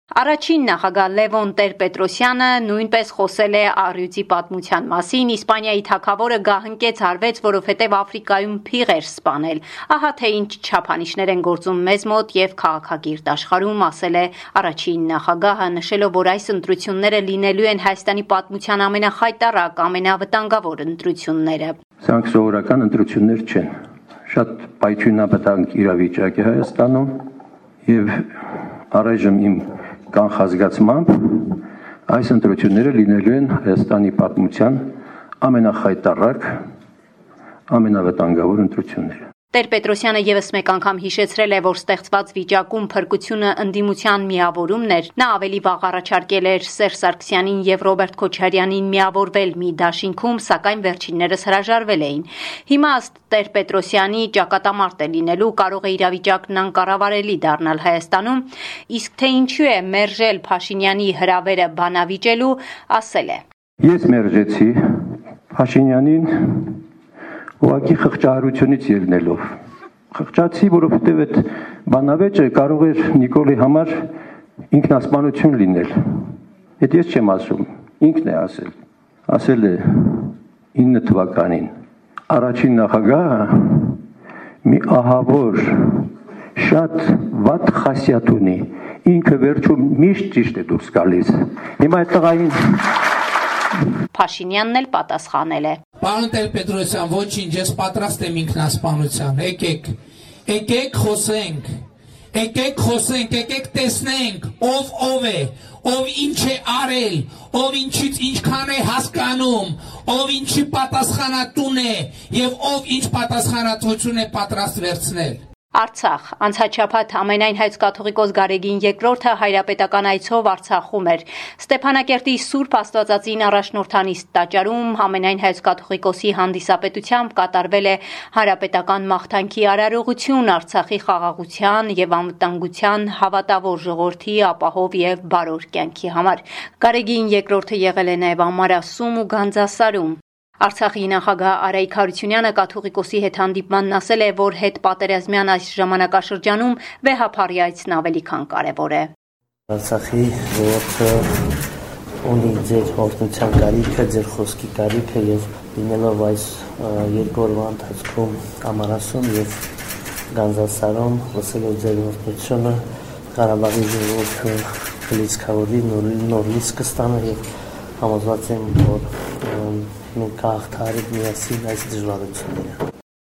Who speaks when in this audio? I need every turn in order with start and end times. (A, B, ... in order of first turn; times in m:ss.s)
0:00.2-0:21.8 A
0:22.0-0:23.7 B
0:24.3-0:27.2 B
0:27.8-0:28.4 B
0:28.9-0:36.6 B
0:37.7-0:39.2 B
0:39.5-1:03.4 A
1:03.8-1:06.8 B
1:07.6-1:09.4 B
1:10.1-1:14.0 B
1:14.7-1:18.7 B
1:19.3-1:21.7 B
1:22.3-1:24.0 B
1:24.6-1:33.0 B
1:34.1-1:35.8 A
1:36.1-1:39.9 C
1:40.5-1:41.7 C
1:42.3-1:55.4 C
1:55.7-2:29.1 A
2:29.7-2:31.2 D
2:32.2-2:39.6 D
2:40.3-2:42.8 D
2:43.3-2:47.4 D
2:48.0-2:52.8 D